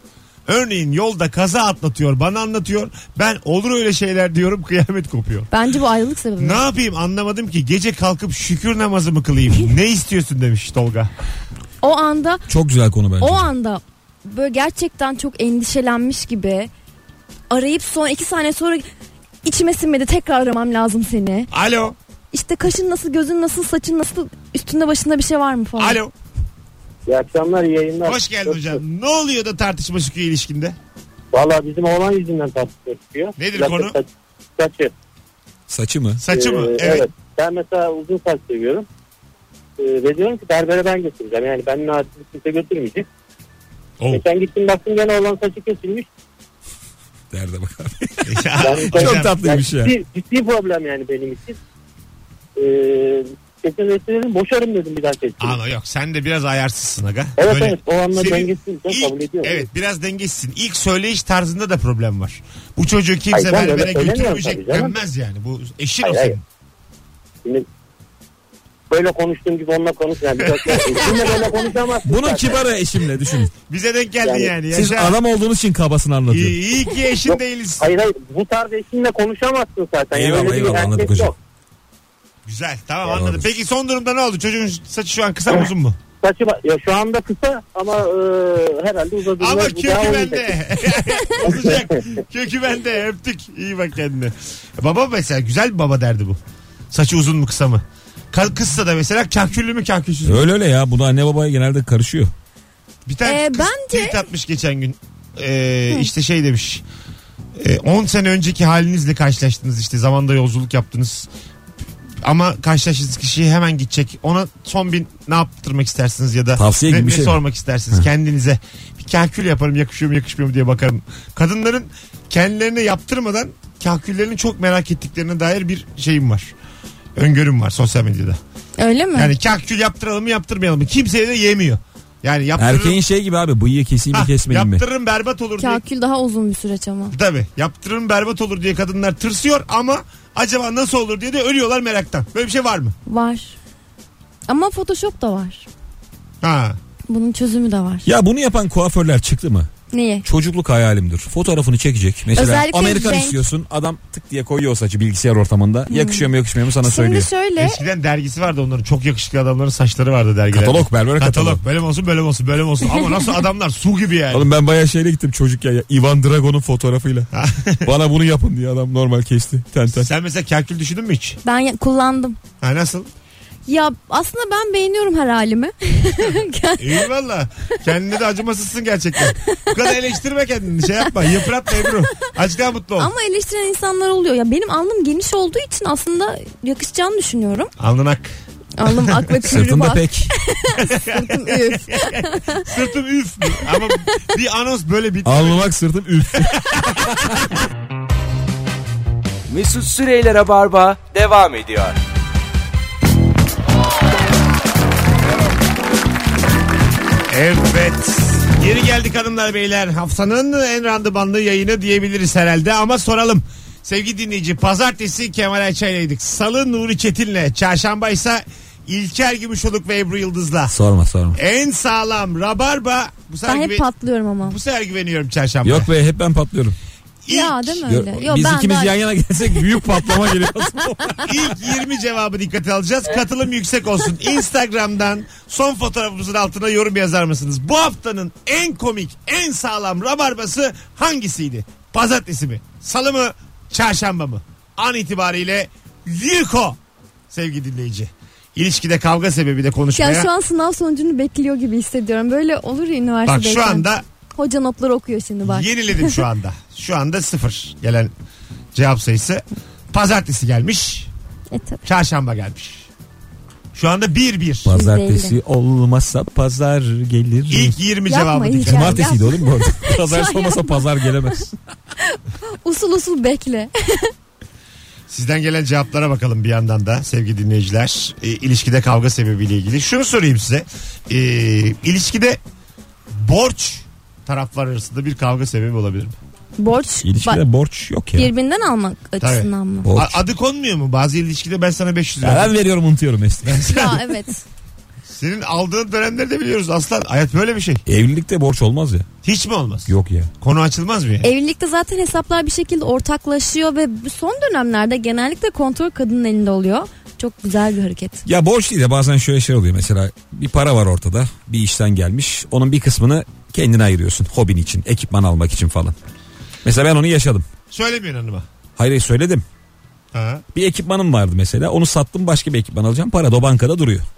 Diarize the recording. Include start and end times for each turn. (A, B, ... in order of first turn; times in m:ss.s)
0:00.4-0:05.5 A
0:05.5-0:06.6 B
0:06.4-0:11.1 A
0:11.8-0:12.4 B
0:12.5-0:13.5 C
0:13.2-0:16.7 B
0:17.5-0:18.8 B
0:19.4-0:21.5 B
0:21.5-0:22.0 A
0:22.3-0:26.0 B
0:25.8-0:26.1 A
0:27.1-0:28.8 D
0:28.0-0:30.8 A
0:31.3-0:34.9 D
0:33.4-0:34.0 A
0:35.7-0:36.2 C
0:36.2-0:37.1 A
0:36.3-0:38.8 D
0:39.8-0:43.1 D
0:44.1-0:46.1 D
0:47.3-0:49.9 C
0:48.2-0:49.3 A
0:48.6-0:51.6 D
0:52.6-0:55.6 D
0:55.4-1:06.4 A
0:57.4-0:59.7 D
1:03.3-1:04.9 D
1:06.0-1:06.4 D
1:08.9-1:12.7 D
1:10.4-1:11.5 A
1:12.0-1:13.5 C
1:13.7-1:15.2 A
1:14.2-1:14.5 D
1:14.7-1:16.6 C
1:16.3-1:17.9 A
1:17.2-1:21.3 D
1:20.1-1:21.3 C
1:22.4-1:26.0 A
1:23.1-1:23.5 C
1:26.2-1:30.5 D
1:29.4-1:36.4 A
1:31.4-1:32.0 D
1:36.9-1:40.5 A
1:40.2-1:42.3 C
1:43.0-1:46.8 A
1:43.2-1:44.2 B
1:47.6-1:51.3 A
1:52.2-2:06.5 A
1:56.6-1:57.4 C
2:07.2-2:08.4 A
2:08.8-2:09.3 B
2:09.1-2:13.0 A
2:12.6-2:14.8 C
2:14.1-2:15.8 A
2:15.6-2:17.2 B
2:17.1-2:23.0 A
2:23.1-2:23.6 B
2:24.5-2:25.7 B
2:26.4-2:26.8 A
2:27.1-2:28.0 B
2:28.0-2:29.7 C
2:29.9-2:30.2 B
2:30.2-2:37.3 C
2:32.3-2:33.4 B
2:35.9-2:36.3 B
2:36.8-2:37.8 B
2:37.6-2:44.5 A
2:40.5-2:41.6 C
2:44.3-2:47.3 C
2:47.3-2:47.9 A
2:47.8-2:50.1 C
2:49.9-2:51.4 A
2:51.4-2:52.4 B
2:52.6-2:53.1 A
2:53.7-2:57.1 B
2:56.8-3:03.1 A
2:59.2-2:59.9 B
3:03.0-3:07.7 B
3:07.8-3:08.3 A
3:08.8-3:12.7 B
3:09.4-3:10.3 C
3:10.8-3:15.7 A
3:13.5-3:14.3 B
3:15.2-3:16.7 C
3:16.6-3:17.1 A
3:19.5-3:22.0 E
3:27.3-3:40.7 A
3:40.7-3:41.4 C
3:41.3-3:43.8 A
3:43.4-3:44.6 B
3:44.4-3:45.9 A
3:45.6-3:46.8 C
3:47.2-3:47.8 A
3:47.3-3:48.9 B
3:47.8-3:51.5 C
3:49.5-3:49.8 B
3:51.2-4:06.8 A
4:07.3-4:10.3 A
4:10.0-4:16.2 B
4:13.2-4:14.0 A
4:15.4-4:18.1 A
4:18.7-4:21.1 A
4:21.5-4:21.9 B
4:21.8-4:22.9 A
4:23.7-4:24.7 A
4:24.6-4:27.8 C
4:24.7-4:25.4 B
4:27.5-4:29.1 A
4:28.1-4:31.4 B
4:28.6-4:31.5 C
4:32.0-4:34.1 B
4:35.1-4:42.4 A
4:43.1-4:46.2 A
4:46.6-4:47.4 B
4:47.0-4:48.3 C
4:48.1-4:49.9 B
4:49.2-4:52.5 A
4:49.8-4:50.2 C
4:52.2-4:53.7 C
4:53.4-4:54.0 A
4:53.6-4:54.4 B
4:55.1-4:57.8 A
4:57.9-4:59.1 C
4:59.2-5:01.3 A
4:59.9-5:00.3 C
5:01.2-5:08.2 B
5:08.2-5:15.9 C
5:16.6-5:17.5 C
5:17.7-5:18.4 A
5:18.8-5:19.4 C
5:20.1-5:20.4 A
5:20.5-5:24.0 C